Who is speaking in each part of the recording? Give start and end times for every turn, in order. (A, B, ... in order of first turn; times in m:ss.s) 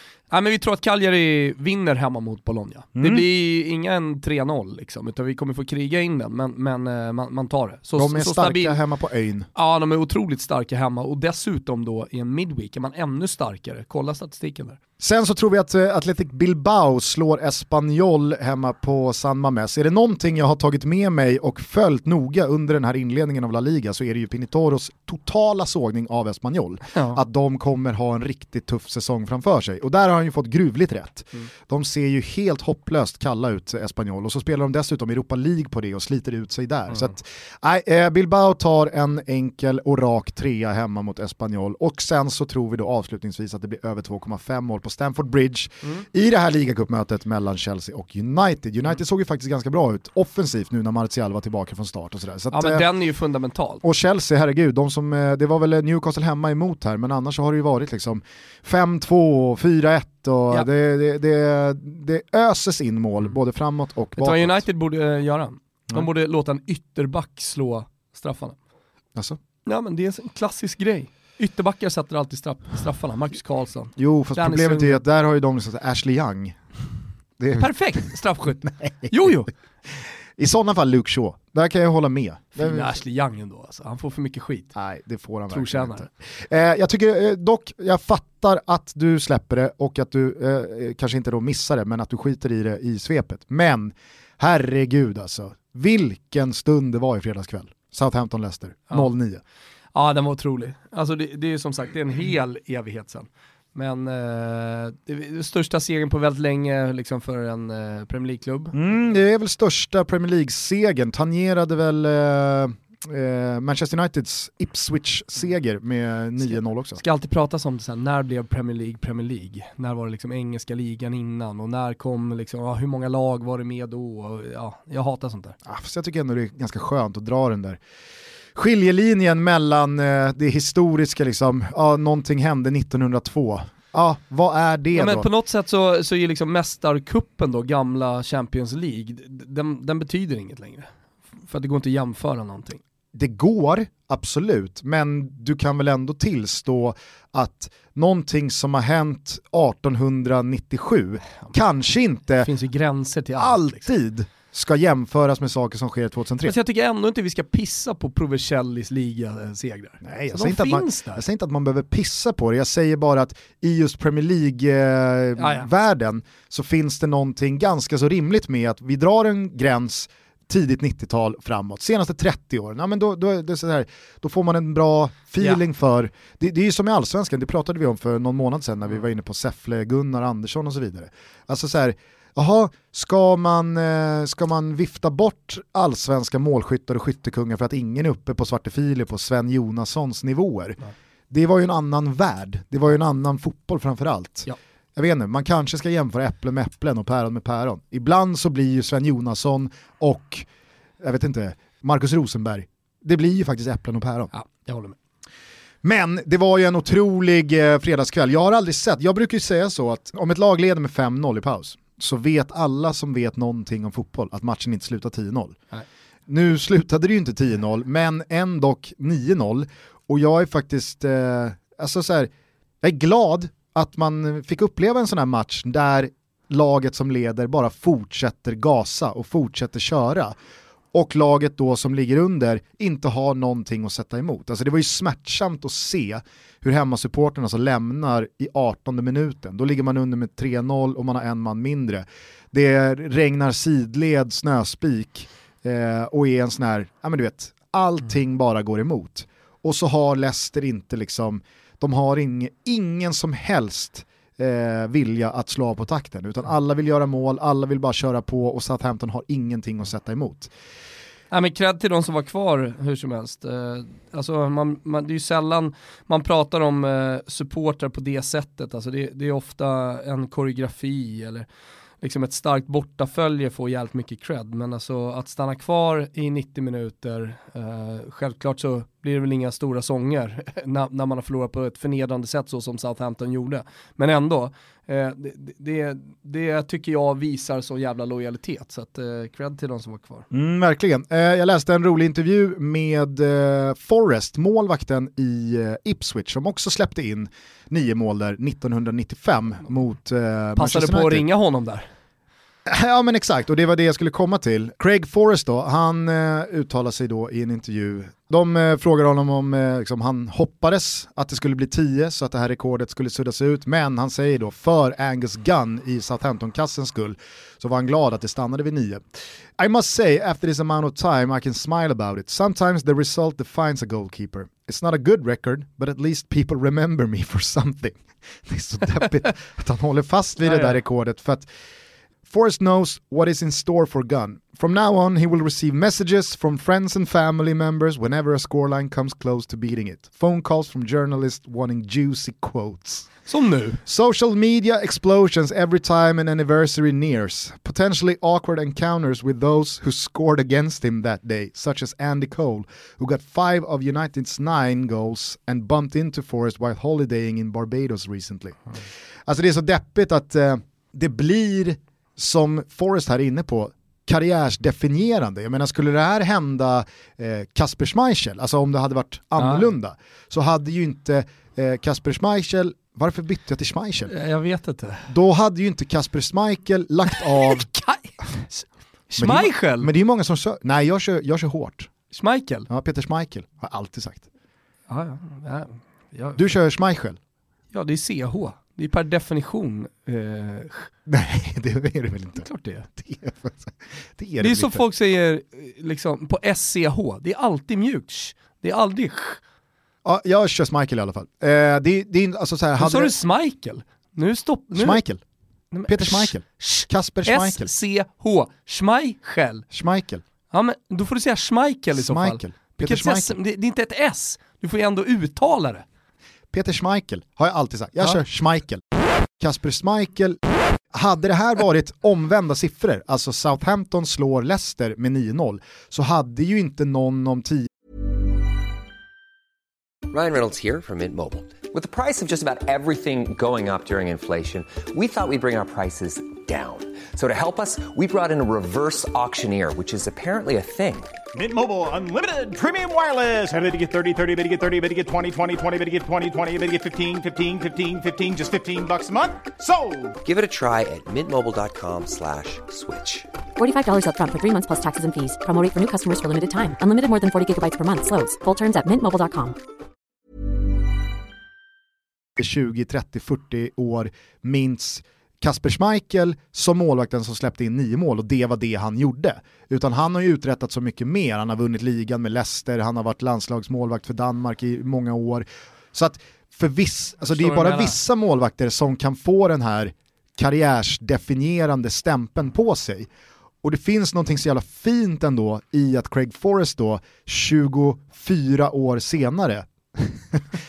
0:00.3-0:08.8 A
0:03.0-0:03.2 B
0:08.0-0:09.5 B
0:09.6-0:14.8 A
0:15.0-0:52.8 B
0:26.9-0:27.2 A
0:52.5-0:53.8 A
0:53.8-1:04.6 B
1:04.2-1:08.6 A
1:09.7-1:15.0 A
1:14.0-1:16.6 B
1:17.4-1:18.1 B
1:17.6-1:19.5 A
1:20.4-1:22.9 B
1:22.6-1:24.8 A
1:24.8-1:39.4 B
1:25.5-1:26.1 A
1:40.0-1:48.8 A
1:48.7-1:57.0 B
1:56.5-2:05.6 A
2:05.7-2:07.8 B
2:08.6-2:15.3 B
2:15.0-2:20.9 A
2:21.5-2:22.8 A
2:23.2-2:32.5 B
2:32.4-2:33.8 A
2:33.4-2:36.5 B
2:36.4-2:41.2 A
2:40.0-3:10.8 B
2:45.4-2:45.7 A
3:11.3-3:20.5 B
3:21.0-3:24.3 B
3:24.3-3:25.0 A
3:25.8-3:35.6 B
3:36.3-3:42.3 B
3:42.8-3:50.4 B
3:50.9-4:20.5 B
4:21.3-4:31.5 A
4:32.0-4:50.3 A
4:50.3-5:01.2 B
5:00.6-5:01.9 A
5:02.7-5:19.0 B
5:19.6-5:31.5 B
5:30.4-5:30.8 A
5:32.3-5:43.1 B
5:43.3-5:43.8 A
5:43.9-6:14.1 B
6:09.4-6:09.7 A
6:14.1-6:15.1 A
6:15.1-6:17.7 B
6:17.1-6:19.9 A
6:19.2-6:21.9 B
6:22.1-6:22.7 A
6:22.7-6:24.2 B
6:24.9-6:26.5 A
6:26.4-6:27.2 B
6:27.7-6:30.9 A
6:31.1-6:33.6 B
6:32.4-6:32.9 A
6:34.2-6:34.8 B
6:34.4-6:39.4 A
6:40.0-6:43.1 B
6:42.8-6:45.0 A
6:44.8-6:45.2 B
6:45.7-6:49.6 A
6:45.9-6:47.7 B
6:49.7-6:50.2 B
6:50.5-6:55.8 A
6:52.0-6:53.3 B
6:56.5-6:58.8 B
6:59.4-7:00.4 B
7:00.9-7:07.7 B
7:10.1-7:21.2 C
7:21.3-7:30.2 D
7:30.2-7:33.3 C
7:33.6-7:39.6 E
7:42.4-8:03.1 B
7:57.3-7:58.0 A
8:03.6-8:10.4 B